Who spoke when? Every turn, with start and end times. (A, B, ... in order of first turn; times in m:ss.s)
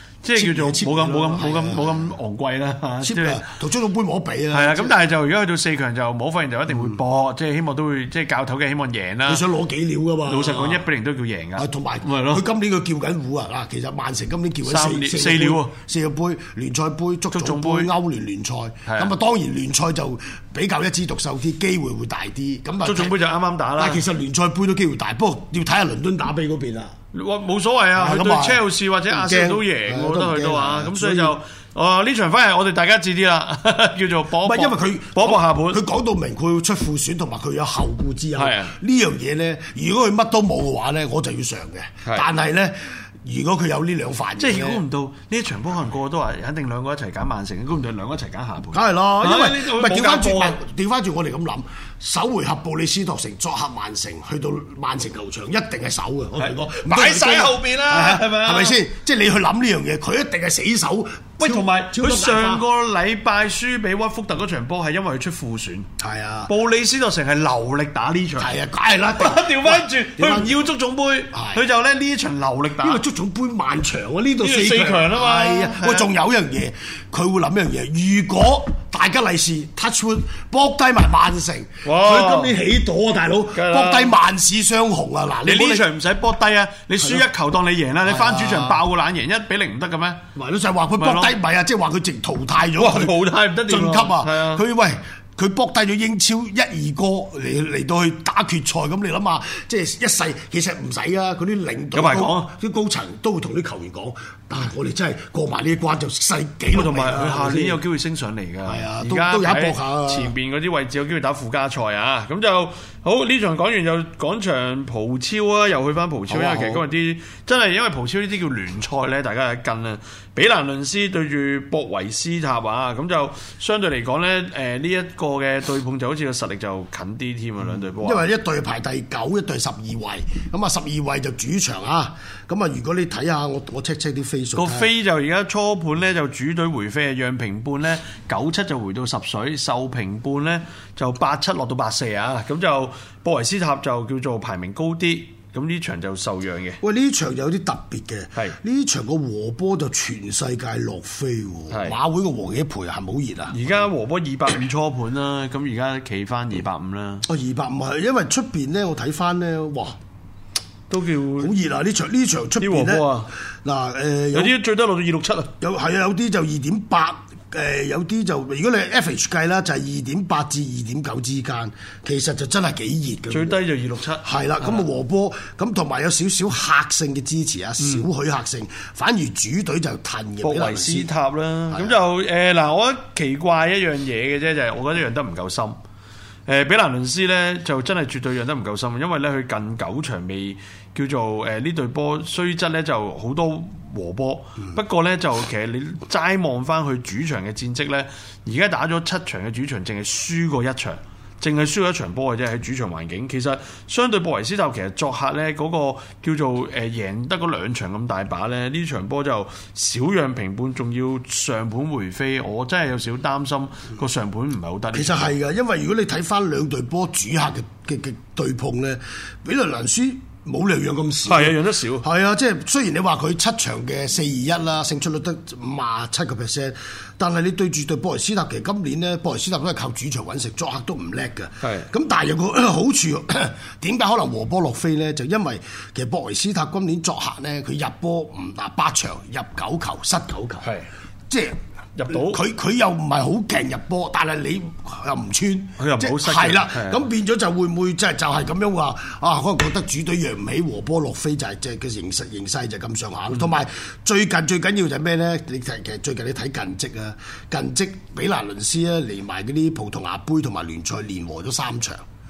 0:00.2-0:03.4 A
0:00.4-0:02.1 B
0:03.0-0:04.9 B
0:04.5-0:09.4 A
0:09.3-0:10.8 B
0:10.3-0:12.5 A
0:11.6-0:23.2 B
0:14.6-0:15.7 A
0:17.3-0:17.9 A
0:18.9-0:19.1 A
0:22.8-0:24.0 A
0:23.8-0:27.0 B
0:27.1-0:35.8 A
0:28.0-0:31.4 B
0:34.4-0:44.8 B
0:38.4-0:38.7 A
0:44.4-0:50.6 A
0:48.7-1:02.6 B
0:56.4-0:58.8 A
1:01.4-1:05.9 A
1:06.0-1:06.5 B
1:06.5-1:08.5 A
1:08.4-1:10.5 B
1:09.2-1:13.0 A
1:11.3-1:11.6 B
1:12.8-1:25.9 B
1:14.4-1:16.1 A
1:21.8-1:22.6 A
1:23.5-1:24.2 A
1:25.4-1:30.2 A
1:28.0-1:28.8 B
1:30.4-1:47.8 B
1:31.0-1:31.4 A
1:32.8-1:34.6 A
1:41.9-1:42.5 A
1:46.7-2:08.2 A
1:48.6-1:50.3 B
1:56.3-1:56.9 B
2:07.6-2:14.9 B
2:14.6-2:26.8 A
2:26.8-2:33.6 B
2:31.7-2:32.0 A
2:33.5-2:37.2 A
2:37.3-2:40.0 B
2:40.9-2:41.5 A
2:41.4-2:43.1 B
2:42.6-2:43.3 A
2:43.6-2:44.6 B
2:44.3-2:45.5 A
2:45.6-2:53.6 B
2:53.3-2:54.8 A
2:54.2-3:01.1 B
2:57.8-2:58.1 A
3:00.4-3:05.8 A
3:01.7-3:02.0 B
3:06.5-3:35.3 A
3:34.9-4:00.7 B
3:41.2-3:42.1 A
3:51.6-3:51.9 A
4:00.6-4:00.9 A
4:01.3-4:01.6 B
4:02.0-4:02.4 A
4:02.1-4:22.0 B
4:05.8-4:07.0 A